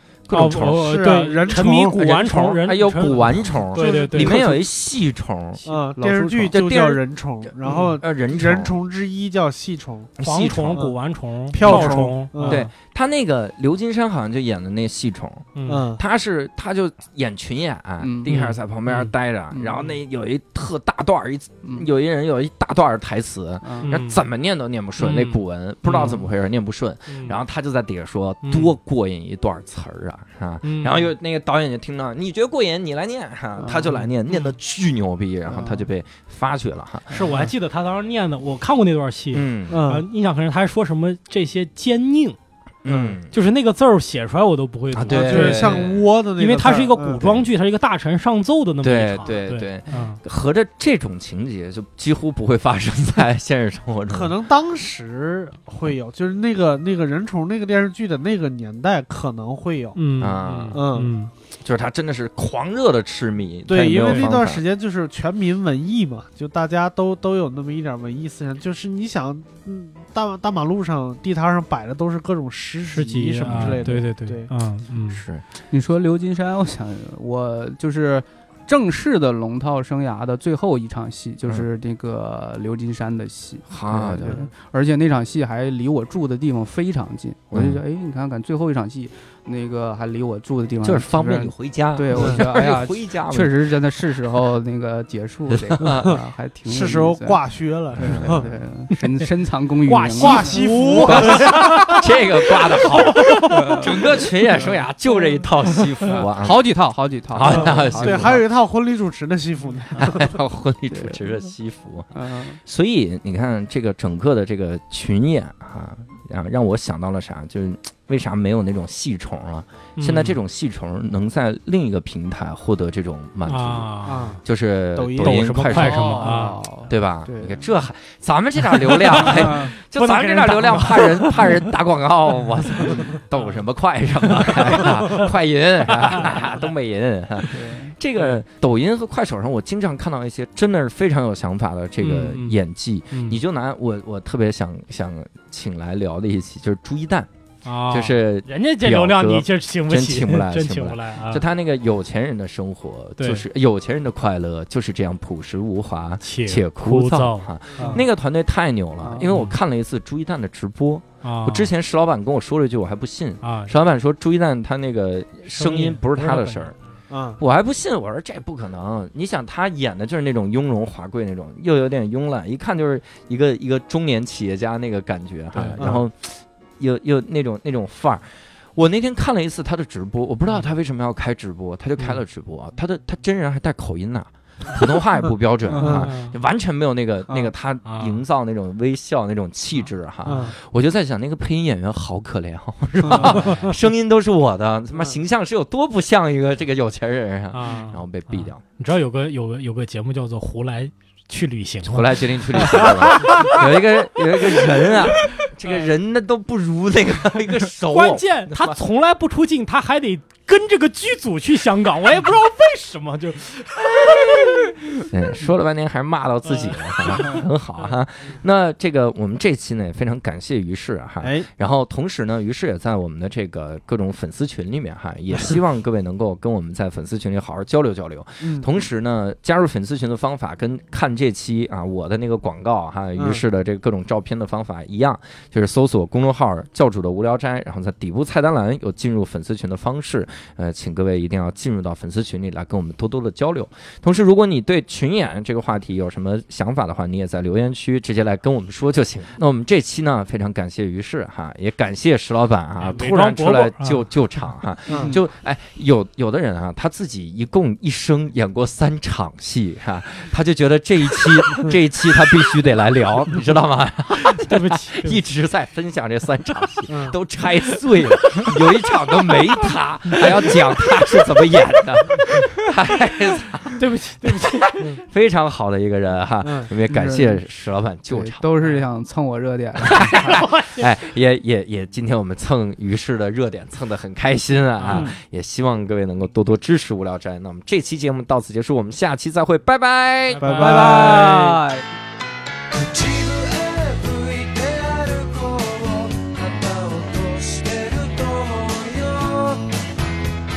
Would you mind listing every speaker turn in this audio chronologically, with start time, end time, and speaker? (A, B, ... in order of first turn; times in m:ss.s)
0:00.3-0:01.2 A
0:00.3-0:04.6 B
0:00.3-0:02.6 C
0:02.6-0:08.7 A
0:03.7-0:04.5 C
0:05.6-0:10.2 C
0:06.0-0:06.6 D
0:07.6-0:08.0 B
0:10.2-0:12.7 B
0:10.2-0:10.8 A
0:11.5-0:12.6 C
0:11.6-0:37.3 A
0:15.5-0:15.9 B
0:15.7-0:16.0 C
0:18.0-0:18.4 D
0:18.3-0:19.1 B
0:19.5-0:19.8 D
0:23.6-0:23.9 D
0:23.8-0:24.2 B
0:25.0-0:26.2 B
0:27.1-0:27.4 B
0:28.4-0:28.7 B
0:30.6-0:31.1 B
0:33.6-0:34.0 D
0:34.0-0:34.5 B
0:35.5-0:35.8 D
0:37.1-0:42.4 B
0:39.3-0:39.8 A
0:39.7-0:40.1 C
0:42.8-0:43.3 A
0:42.9-0:43.2 C
0:43.3-0:50.2 B
0:44.9-0:46.0 A
0:45.1-0:47.2 C
0:47.2-0:47.5 A
0:48.8-0:54.3 A
0:54.1-1:00.0 C
0:59.9-1:01.3 B
1:00.2-1:00.8 A
1:00.7-1:01.1 C
1:01.6-1:04.6 A
1:03.7-1:14.5 C
1:03.9-1:04.3 B
1:12.9-1:15.2 B
1:13.4-1:13.8 A
1:15.1-1:15.4 A
1:15.7-1:37.4 D
1:23.7-1:24.4 A
1:27.5-1:27.8 A
1:30.8-1:33.5 A
1:35.5-1:36.2 A
1:36.7-1:38.5 C
1:37.9-1:41.8 D
1:38.0-1:38.4 A
1:39.9-1:42.0 C
1:40.0-1:42.0 B
1:41.0-1:46.6 A
1:42.7-1:43.9 B
1:43.3-1:44.8 D
1:45.9-1:48.4 D
1:47.3-1:48.4 A
1:47.4-1:50.3 C
1:50.0-1:50.2 D
1:50.0-2:27.3 A
1:50.9-1:51.2 D
1:52.1-1:52.6 D
2:00.0-2:00.4 B
2:03.5-2:04.4 B
2:04.0-2:04.4 C
2:04.9-2:05.7 C
2:05.2-2:06.6 B
2:05.7-2:07.6 D
2:08.9-2:11.7 B
2:09.1-2:09.7 D
2:14.3-2:15.2 B
2:17.5-2:18.0 D
2:22.0-2:23.4 B
2:27.6-2:31.4 B
2:27.9-2:46.7 A
2:33.2-2:33.4 B
2:36.2-2:38.0 B
2:37.7-2:38.0 C
2:39.0-2:39.3 D
2:39.3-2:39.6 B
2:41.2-2:41.7 B
2:43.4-2:43.8 B
2:45.5-2:46.8 B
2:47.1-2:47.4 C
2:47.4-3:18.6 A
2:55.5-2:55.9 B
2:55.7-2:56.0 C
3:05.7-3:06.0 D
3:05.8-3:06.1 C
3:05.8-3:06.4 B
3:07.8-3:08.2 B
3:10.2-3:10.5 C
3:13.0-3:13.7 B
3:17.5-3:23.7 B
3:21.8-3:28.8 A
3:25.1-3:25.9 B
3:27.8-3:35.0 B
3:35.1-4:38.4 A
3:36.4-3:38.4 B
3:41.2-3:41.5 C
3:48.4-3:48.8 C
3:53.2-3:53.4 C
4:12.8-4:14.5 B
4:14.9-4:15.2 C
4:14.9-4:15.2 D
4:24.2-4:25.2 B
4:26.9-4:27.2 C
4:33.7-4:35.0 B
4:36.4-4:36.7 C
4:36.9-4:37.4 D
4:38.1-4:40.2 D
4:39.8-4:51.3 A
4:40.0-4:40.9 B
4:44.8-4:45.1 B
4:50.3-4:51.6 B
4:50.4-4:51.3 C
4:50.6-4:51.8 D
4:52.7-4:59.7 E